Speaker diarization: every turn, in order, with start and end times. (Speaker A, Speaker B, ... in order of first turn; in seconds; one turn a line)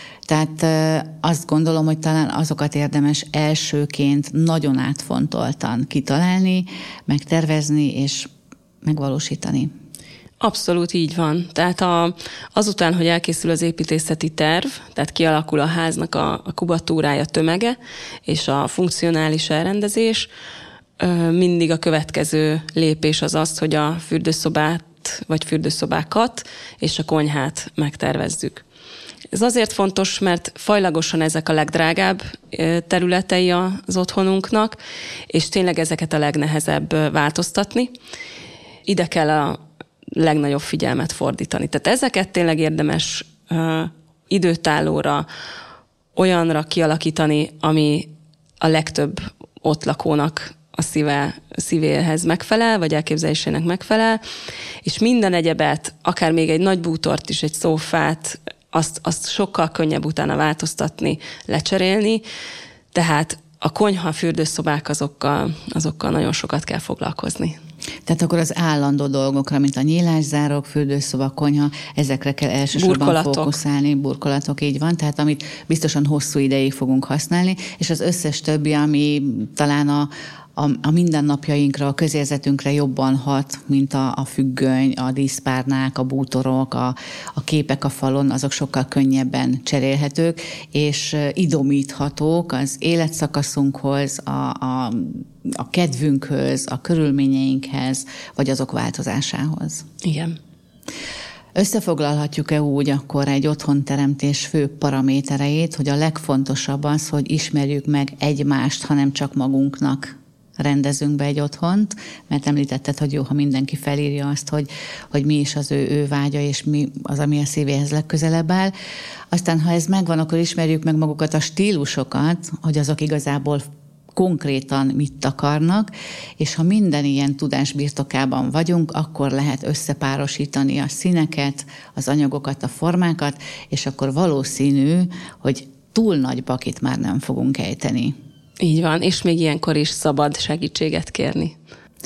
Speaker A: 0.3-8.3
Speaker A: 8.8-9.7
Speaker B: 10.4-20.3
Speaker B: 21.0-28.6
Speaker B: 29.3-34.8
Speaker B: 35.3-37.9
Speaker B: 38.9-39.6
Speaker B: 40.1-45.3
Speaker B: 46.1-54.2
Speaker B: 54.8-62.2
Speaker B: 62.9-67.6
Speaker A: 68.1-99.9
Speaker B: 72.8-73.6
Speaker B: 100.0-100.4
Speaker A: 101.6-118.7
Speaker A: 119.3-138.1
Speaker B: 138.6-141.6